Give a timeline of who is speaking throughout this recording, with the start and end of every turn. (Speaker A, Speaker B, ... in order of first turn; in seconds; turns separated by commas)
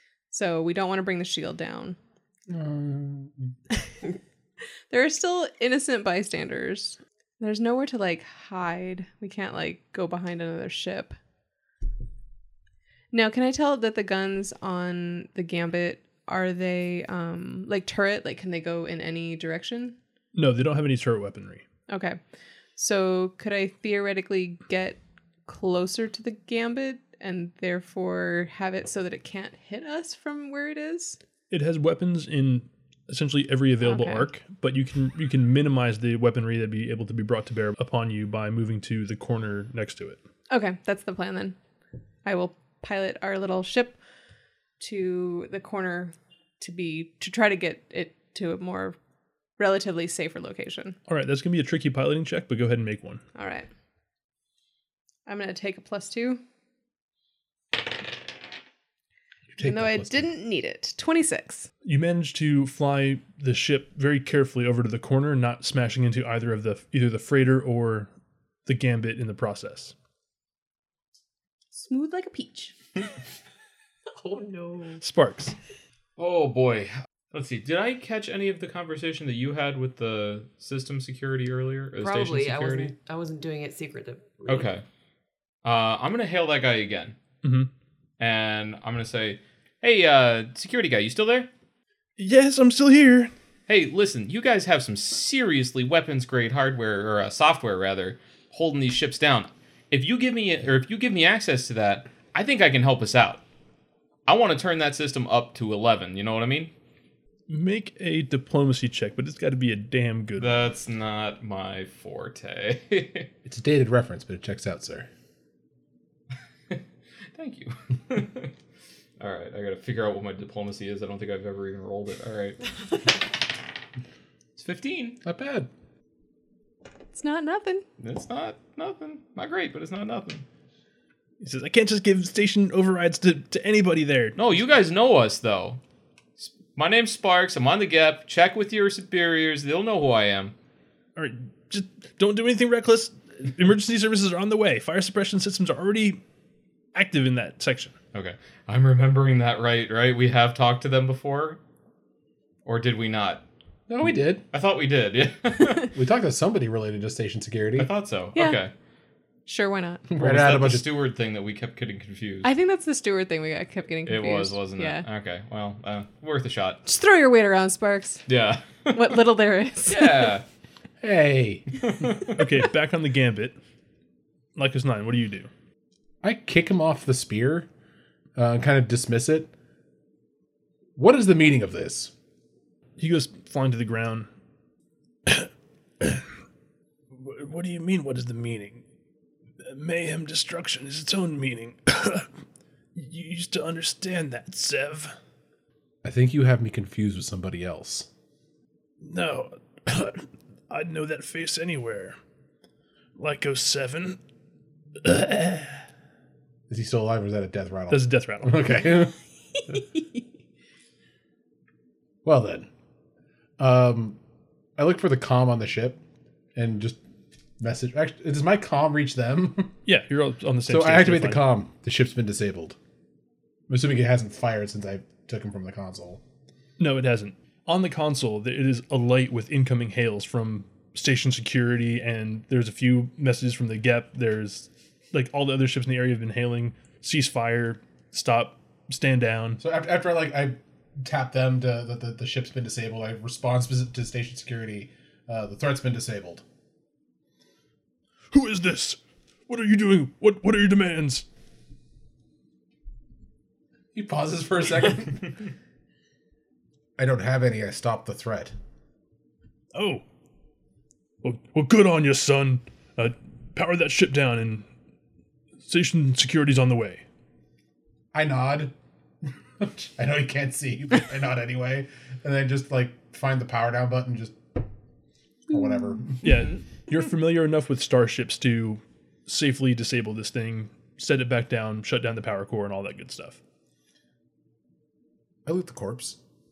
Speaker A: 0.3-2.0, Speaker B: 2.5-3.5, Speaker A: 4.9-11.2, Speaker A: 13.1-20.0, Speaker C: 20.4-21.6, Speaker A: 21.9-22.2, Speaker A: 22.8-31.2, Speaker C: 31.5-40.2, Speaker A: 33.8-34.3, Speaker A: 40.5-41.6, Speaker A: 42.2-44.0, Speaker A: 44.8-49.0, Speaker A: 49.6-51.0, Speaker C: 51.1-53.2, Speaker A: 53.4-53.7, Speaker A: 55.3-56.4, Speaker B: 59.5-60.3, Speaker A: 59.6-61.7, Speaker C: 61.8-68.1, Speaker C: 68.7-69.9, Speaker A: 71.7-72.7, Speaker D: 74.2-75.0, Speaker C: 75.0-75.5, Speaker E: 76.2-82.9, Speaker D: 82.0-84.7, Speaker E: 84.5-84.8, Speaker E: 85.6-87.2, Speaker C: 87.4-87.7, Speaker E: 88.2-91.5, Speaker C: 92.2-93.3, Speaker E: 93.7-103.4, Speaker E: 104.3-106.7, Speaker C: 107.5-110.7, Speaker E: 110.4-113.3, Speaker B: 113.5-115.1, Speaker E: 117.3-118.5, Speaker E: 119.2-122.7, Speaker E: 124.6-125.2, Speaker B: 125.2-125.7, Speaker A: 127.1-127.8, Speaker E: 128.0-130.4, Speaker C: 131.4-134.4, Speaker E: 134.4-135.8, Speaker E: 136.4-140.6, Speaker C: 141.2-146.2, Speaker C: 146.9-147.9, Speaker E: 148.1-151.6, Speaker E: 152.7-153.4, Speaker B: 153.9-154.4, Speaker E: 154.5-155.9, Speaker B: 155.9-157.9, Speaker E: 157.8-158.7, Speaker A: 158.4-158.6, Speaker A: 159.5-160.1, Speaker B: 160.1-160.9, Speaker E: 160.2-162.5, Speaker A: 162.4-165.0, Speaker E: 164.1-166.8, Speaker A: 166.9-168.2, Speaker E: 168.3-169.2, Speaker A: 168.9-170.3, Speaker E: 169.8-170.4, Speaker B: 171.0-171.7, Speaker E: 171.8-172.4, Speaker C: 172.3-173.6, Speaker C: 174.6-175.5, Speaker B: 176.2-177.7, Speaker B: 178.4-179.5, Speaker B: 181.0-182.1, Speaker C: 183.0-184.3, Speaker C: 185.3-186.3, Speaker C: 187.1-188.8, Speaker C: 189.6-192.3, Speaker C: 192.9-195.2, Speaker B: 196.0-198.1, Speaker C: 199.0-202.2, Speaker C: 203.2-204.2, Speaker C: 205.0-205.8, Speaker B: 206.7-209.1, Speaker C: 207.9-208.7, Speaker B: 212.2-212.7, Speaker B: 213.6-214.2, Speaker B: 214.8-216.0, Speaker B: 216.6-217.0, Speaker B: 217.6-219.8, Speaker C: 219.9-221.5, Speaker B: 220.7-222.8, Speaker B: 223.7-226.2, Speaker C: 226.8-239.6, Speaker B: 239.6-246.4, Speaker C: 248.3-251.2, Speaker B: 253.9-255.4, Speaker B: 257.0-258.5, Speaker C: 259.7-260.0, Speaker C: 261.2-264.7, Speaker C: 265.6-267.0, Speaker B: 268.1-268.7, Speaker B: 269.6-274.6, Speaker B: 275.5-276.2, Speaker C: 276.2-283.4, Speaker B: 285.5-286.2